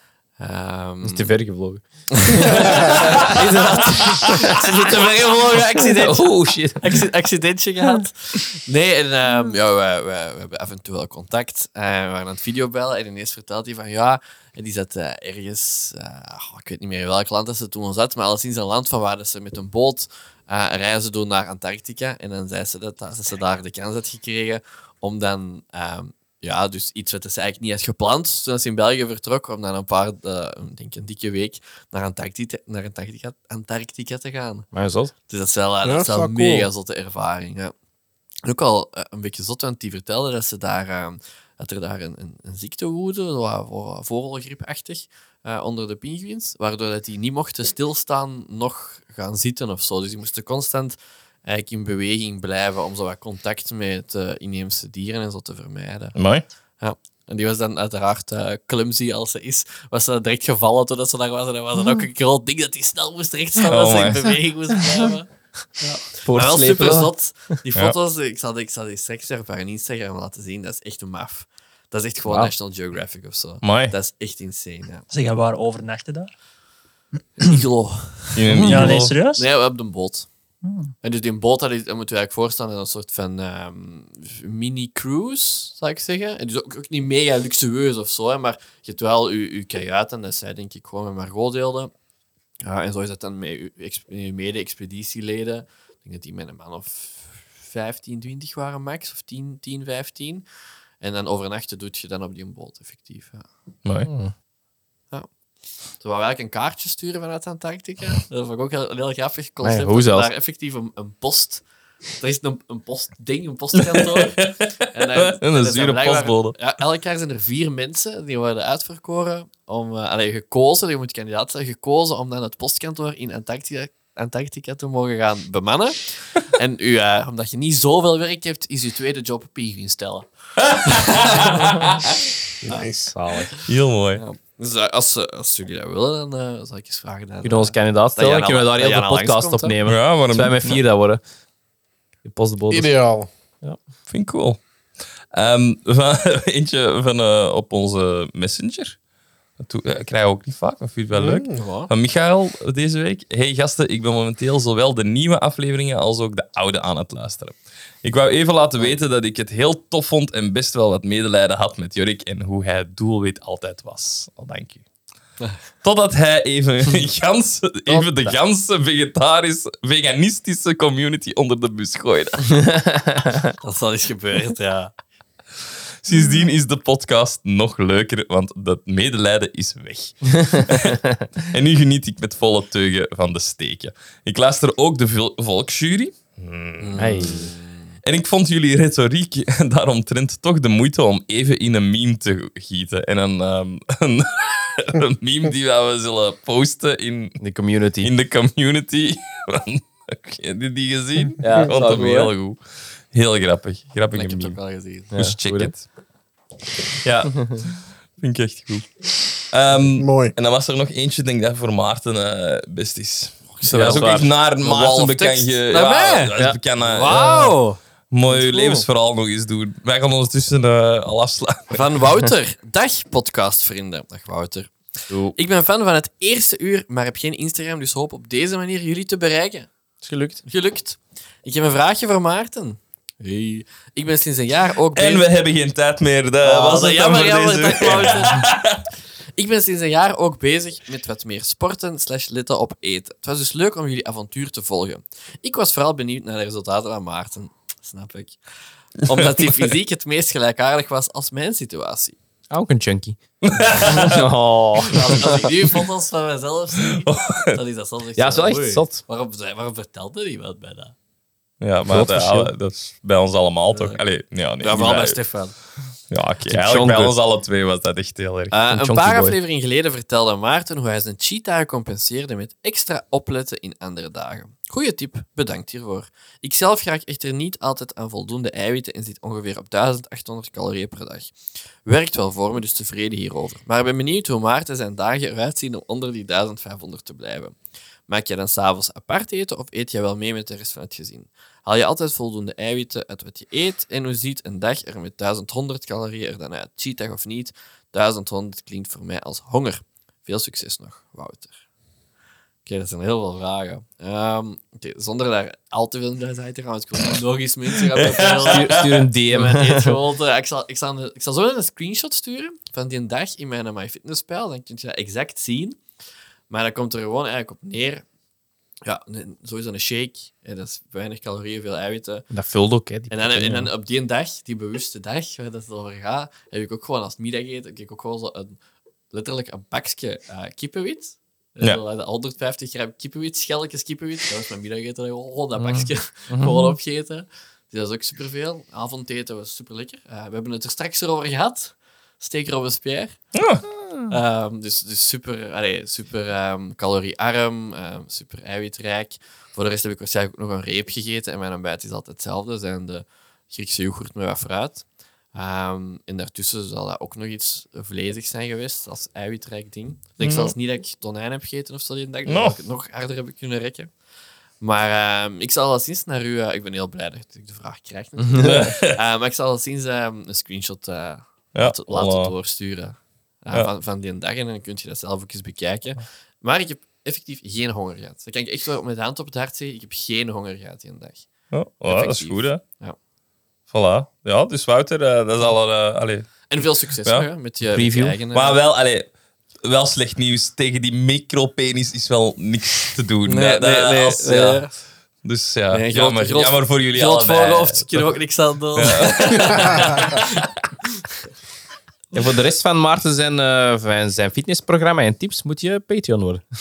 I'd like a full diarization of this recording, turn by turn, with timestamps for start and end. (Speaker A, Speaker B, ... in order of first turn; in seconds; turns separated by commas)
Speaker A: 0.4-1.3, Speaker B: 1.0-4.9, Speaker A: 2.1-34.7, Speaker C: 2.8-3.2, Speaker C: 4.0-4.5, Speaker B: 5.8-7.1, Speaker B: 34.7-35.1, Speaker A: 35.3-37.7, Speaker D: 35.8-36.7, Speaker A: 38.5-56.1, Speaker C: 56.1-56.5, Speaker A: 56.8-65.3, Speaker C: 63.7-64.3, Speaker A: 65.8-75.1, Speaker B: 66.2-67.1, Speaker C: 73.6-73.9, Speaker E: 75.1-76.3, Speaker A: 77.4-80.3, Speaker C: 78.4-79.2, Speaker E: 78.6-79.5, Speaker E: 80.6-80.9, Speaker A: 81.0-91.9, Speaker A: 92.6-100.5, Speaker A: 101.0-103.5, Speaker B: 104.1-104.3, Speaker A: 106.0-111.6, Speaker B: 109.6-110.3, Speaker A: 112.2-130.3, Speaker C: 113.8-116.6, Speaker C: 130.7-132.0, Speaker A: 130.9-131.9, Speaker D: 132.6-133.1, Speaker B: 133.1-133.5, Speaker C: 133.7-134.2, Speaker A: 134.2-139.8, Speaker B: 137.4-141.2, Speaker C: 139.8-140.8, Speaker B: 142.2-142.9, Speaker D: 142.7-143.3, Speaker C: 144.1-144.6, Speaker C: 145.3-149.0, Speaker C: 149.6-164.8, Speaker D: 151.1-151.5, Speaker A: 151.5-151.9, Speaker C: 165.8-172.6, Speaker B: 167.9-168.3, Speaker B: 172.5-173.5, Speaker A: 173.6-174.9, Speaker C: 176.0-187.0, Speaker B: 180.4-181.2, Speaker A: 186.8-187.9, Speaker B: 187.0-187.5, Speaker C: 188.0-197.4, Speaker B: 197.4-198.1, Speaker C: 198.0-202.6, Speaker B: 201.4-202.3, Speaker C: 203.1-204.6, Speaker A: 204.1-205.1, Speaker B: 205.1-205.7, Speaker C: 205.1-205.8, Speaker C: 207.0-217.6, Speaker D: 209.9-210.3, Speaker A: 213.6-218.9, Speaker B: 213.6-214.3, Speaker C: 218.1-221.8, Speaker A: 221.7-224.7, Speaker B: 225.1-225.4, Speaker A: 225.3-229.7, Speaker B: 230.0-230.4, Speaker A: 230.5-235.3, Speaker C: 234.9-238.8, Speaker A: 236.4-238.5, Speaker A: 239.4-248.4, Speaker A: 249.0-252.2, Speaker C: 249.1-249.7, Speaker B: 252.5-253.2, Speaker C: 253.4-254.3, Speaker B: 253.8-255.5, Speaker A: 254.9-260.9, Speaker C: 256.9-257.6, Speaker B: 258.2-259.0, Speaker C: 261.6-265.2, Speaker B: 261.9-262.5, Speaker A: 263.7-264.0, Speaker A: 264.6-265.6, Speaker C: 266.1-268.6, Speaker B: 266.4-267.1, Speaker A: 268.5-281.3, Speaker B: 268.7-269.4, Speaker A: 281.9-287.6, Speaker A: 288.1-301.5, Speaker A: 302.6-315.8, Speaker C: 307.9-309.1, Speaker B: 308.4-310.0, Speaker A: 316.5-318.0, Speaker A: 318.9-322.3, Speaker B: 322.3-323.7, Speaker A: 323.1-328.6, Speaker A: 329.1-343.2, Speaker B: 335.6-336.8, Speaker C: 343.4-343.7, Speaker A: 344.1-363.9, Speaker C: 360.2-360.5, Speaker C: 362.3-362.6, Speaker A: 364.6-381.3, Speaker B: 368.2-368.7, Speaker C: 368.4-369.0, Speaker C: 371.6-372.3, Speaker C: 381.5-382.6, Speaker A: 381.9-383.0, Speaker C: 383.7-386.5, Speaker A: 386.5-388.6, Speaker B: 387.7-388.2, Speaker C: 388.3-389.1, Speaker C: 389.6-394.6, Speaker A: 393.2-394.7, Speaker C: 395.2-398.1, Speaker A: 395.7-400.5, Speaker C: 398.8-400.3, Speaker B: 402.1-406.4